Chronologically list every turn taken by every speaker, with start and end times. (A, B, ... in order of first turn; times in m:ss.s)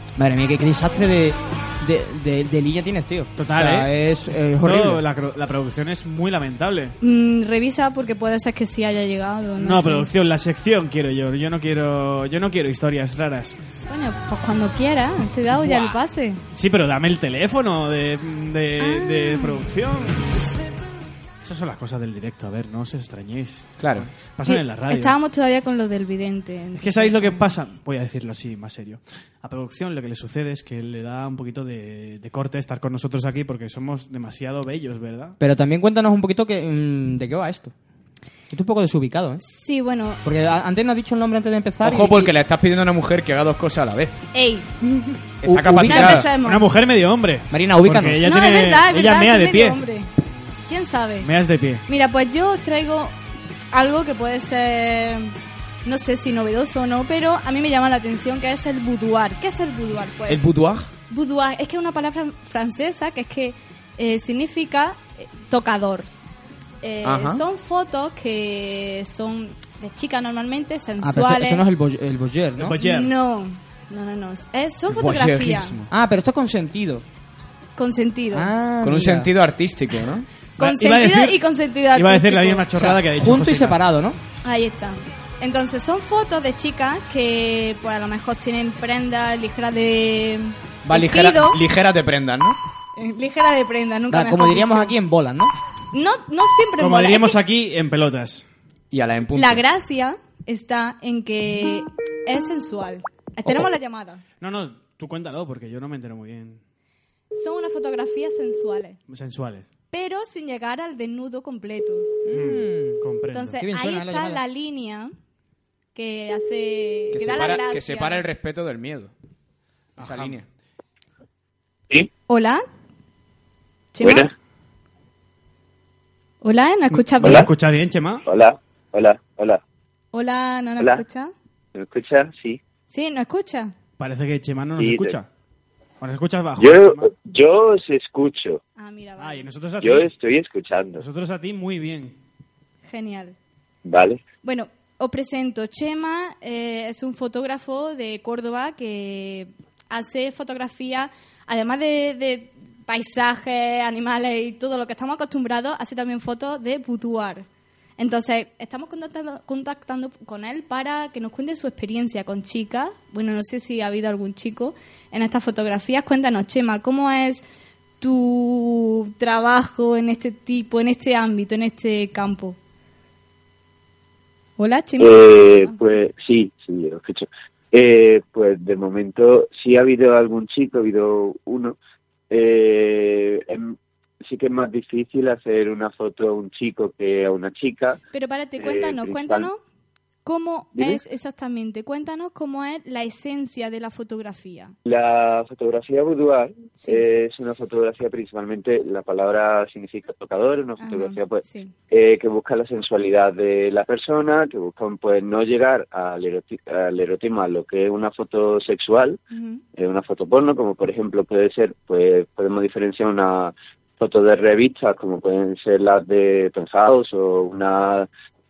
0:00.2-0:05.0 A
0:03.4-0:03.9 B
0:04.6-0:07.0 B
0:07.0-0:10.1 C
0:09.6-0:13.6 B
0:13.9-0:16.4 C
0:16.5-0:20.2 B
0:18.8-0:19.6 C
0:21.4-0:25.1 B
0:23.8-0:24.1 D
0:24.4-0:27.4 C
0:26.8-0:35.4 B
0:35.4-0:37.7 A
0:38.5-0:39.4 A
0:39.4-0:40.2 C
0:40.2-0:42.3 A
0:41.8-0:44.2 D
0:44.3-0:45.2 C
0:45.4-0:46.2 D
0:45.4-0:46.3 A
0:45.8-0:46.6 C
0:46.3-0:49.8 B
0:47.5-0:48.2 A
0:48.2-0:50.1 C
0:50.7-0:51.3 C
0:51.2-0:51.8 B
0:51.9-0:53.1 C
0:53.7-1:00.5 C
1:00.3-1:00.9 D
1:01.1-1:06.1 C
1:06.8-1:11.6 C
1:07.0-1:07.4 D
1:11.0-1:12.7 A
1:12.6-1:13.1 B
1:12.8-1:15.8 C
1:14.9-1:15.9 D
1:15.9-1:17.0 A
1:17.8-1:18.5 C
1:18.3-1:19.3 A
1:18.8-1:20.2 D
1:20.6-1:22.7 C
1:20.6-1:21.4 B
1:21.9-1:23.8 B
1:22.8-1:24.2 A
1:24.4-1:31.6 C
1:30.8-1:32.6 D
1:33.0-1:34.9 C
1:34.1-1:35.5 A
1:35.9-1:37.4 C
1:36.8-1:38.4 B
1:38.9-1:39.6 D
1:39.3-1:44.2 C
1:44.4-1:46.6 B
1:47.4-1:49.0 C
1:49.1-1:49.7 B
1:49.9-1:52.1 C
1:52.2-1:53.0 A
1:52.3-1:53.6 B
1:53.3-1:55.1 C
1:53.6-1:54.4 A
1:55.9-1:58.2 C
1:57.1-1:59.1 D
2:00.0-2:00.4 B
2:00.0-2:00.4 D
2:02.3-2:02.6 C
2:03.9-2:04.3 C
2:04.0-2:04.3 E
2:06.4-2:07.5 C
2:07.1-2:08.2 B
2:07.2-2:07.5 E
2:08.2-2:09.6 E
2:10.1-2:11.3 C
2:11.7-2:12.6 E
2:12.9-2:13.7 C
2:14.0-2:15.3 B
2:14.8-2:15.2 E
2:16.0-2:17.1 B
2:16.6-2:18.6 E
2:18.8-2:19.4 C
2:19.2-2:20.1 B
2:19.8-2:21.0 E
2:21.0-2:22.2 B
2:22.9-2:23.4 C
2:23.8-2:24.2 E
2:24.4-2:37.4 C
2:38.0-2:47.4 C
2:48.0-2:52.6 C
2:54.6-2:55.8 C
2:55.0-3:01.8 E
3:02.3-3:08.0 E
3:08.1-3:09.6 C
3:08.6-3:09.5 E
3:10.2-3:14.7 C
3:14.8-3:29.2 E
3:16.8-3:17.0 C
3:20.8-3:21.7 C
3:29.3-3:29.6 C
3:29.8-3:38.1 E